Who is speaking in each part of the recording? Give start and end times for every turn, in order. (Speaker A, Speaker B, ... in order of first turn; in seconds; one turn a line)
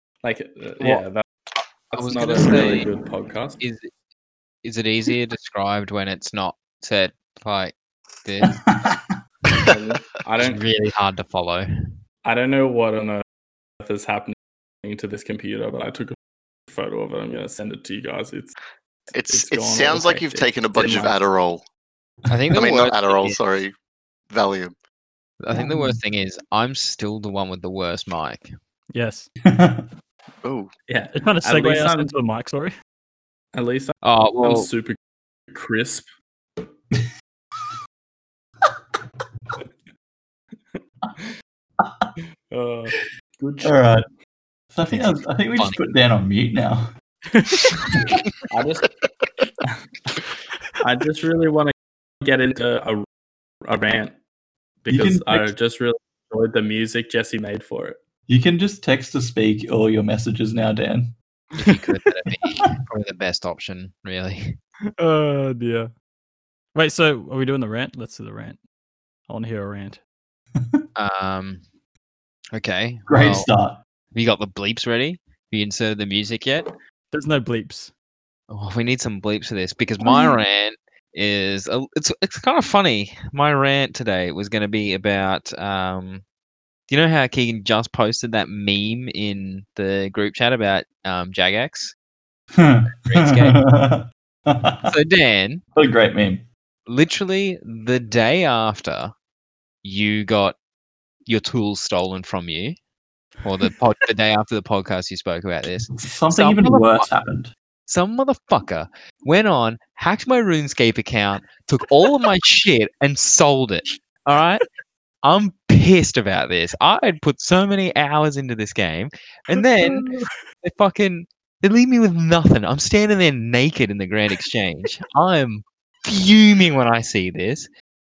Speaker A: 0.2-1.2
Speaker A: 1.9-3.6
Speaker B: 1.9-2.9
Speaker B: 3.6-3.9
Speaker B: 4.6-8.6
Speaker C: 8.4-9.2
Speaker A: 9.6-10.6
Speaker B: 10.4-11.7
Speaker A: 12.2-13.2
Speaker A: 13.8-16.2
Speaker A: 16.7-18.6
Speaker D: 19.1-21.6
Speaker A: 19.3-21.2
Speaker B: 22.3-23.4
Speaker D: 22.5-23.7
Speaker D: 24.3-24.8
Speaker B: 25.4-28.5
Speaker C: 25.5-26.0
Speaker E: 28.9-29.3
Speaker C: 29.4-29.9
Speaker D: 30.4-30.7
Speaker A: 30.9-32.1
Speaker E: 31.1-32.7
Speaker A: 33.5-35.0
Speaker B: 34.0-34.7
Speaker A: 35.5-36.1
Speaker A: 40.8-41.2
Speaker C: 41.8-42.1
Speaker A: 42.5-43.8
Speaker C: 43.6-44.0
Speaker C: 44.7-46.9
Speaker B: 44.9-45.8
Speaker C: 47.8-48.2
Speaker A: 48.5-48.9
Speaker A: 50.8-53.1
Speaker A: 53.6-54.1
Speaker A: 54.8-58.0
Speaker C: 54.9-55.5
Speaker C: 58.3-61.1
Speaker B: 61.5-64.6
Speaker E: 65.0-65.9
Speaker E: 66.8-68.6
Speaker E: 69.3-70.0
Speaker B: 71.0-71.6
Speaker B: 72.5-73.5
Speaker C: 73.1-73.8
Speaker B: 74.1-76.7
Speaker E: 77.1-77.9
Speaker B: 78.5-86.2
Speaker B: 86.9-91.9
Speaker C: 92.5-94.9
Speaker B: 93.0-93.6
Speaker B: 94.8-95.7
Speaker C: 95.8-96.4
Speaker B: 96.9-99.1
Speaker B: 99.8-100.6
Speaker B: 101.3-102.8
Speaker B: 103.4-107.1
Speaker C: 105.9-107.5
Speaker B: 107.9-114.6
Speaker B: 115.2-120.1
Speaker B: 120.6-127.7